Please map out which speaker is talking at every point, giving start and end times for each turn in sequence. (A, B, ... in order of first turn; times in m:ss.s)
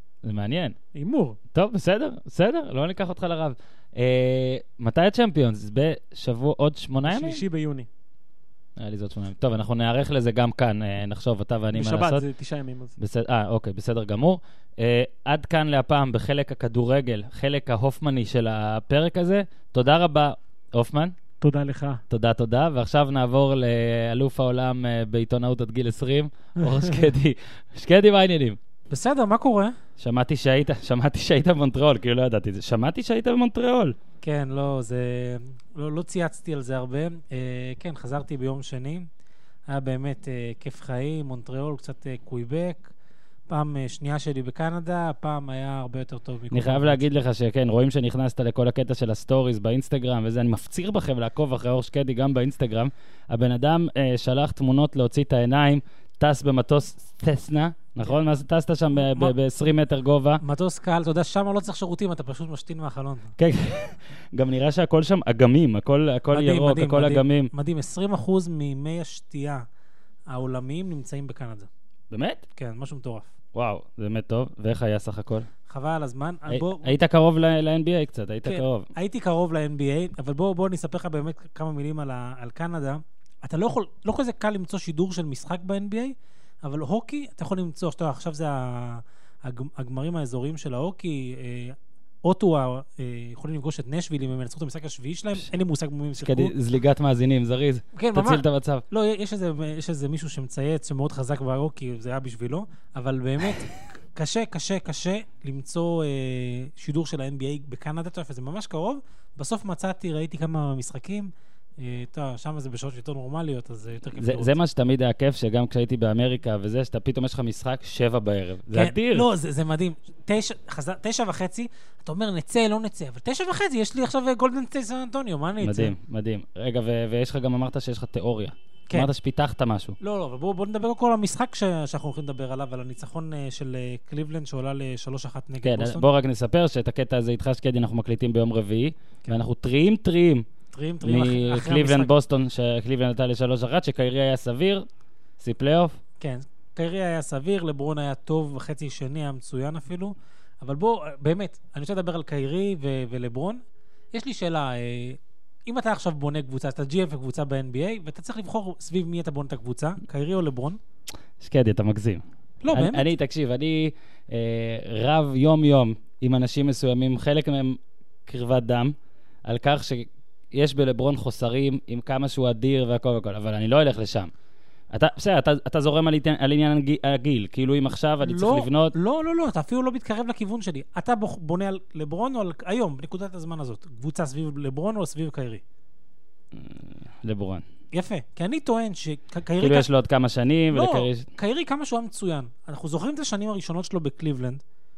0:00.2-0:00.8 A
0:00.9-0:01.4 B
0:01.5-0:07.4 A
0:07.0-0:07.9 B
0:08.8-0:12.2 A
0:11.7-0:13.0 B
0:13.0-0:21.2 A
0:21.4-0:22.0 B
0:22.1-0:28.6 A
0:28.9-0:29.8 C
0:30.0-0:34.0 A
0:34.2-0:39.1 C
0:39.7-0:42.9 C
0:43.5-0:47.0 C
0:46.5-1:00.4 A
0:58.9-0:59.3 C
1:00.4-1:03.3 C
1:03.4-1:07.5 A
1:06.3-1:09.6 C
1:10.3-1:11.7 C
1:12.1-1:12.4 A
1:12.6-1:13.3 C
1:13.6-1:15.5 A
1:15.7-1:17.0 C
1:16.5-1:18.9 A
1:18.4-1:36.5 C
1:36.2-1:38.8 A
1:37.9-1:54.6 C
1:54.2-1:59.3 A
1:58.7-2:05.9 C
2:05.6-2:10.0 A
2:10.0-2:16.0 C
2:15.6-2:20.5 A
2:20.7-2:22.1 C
2:21.0-2:24.9 A
2:25.4-2:26.0 A
2:26.2-2:33.6 C
2:34.1-2:40.8 C
2:41.4-2:49.0 A
2:42.6-2:43.1 C
2:49.5-2:54.3 A
2:54.9-2:59.0 A
2:58.2-3:05.6 C
3:06.5-3:07.6 A
3:07.9-3:09.9 C
3:09.6-3:11.3 A
3:10.7-3:14.6 C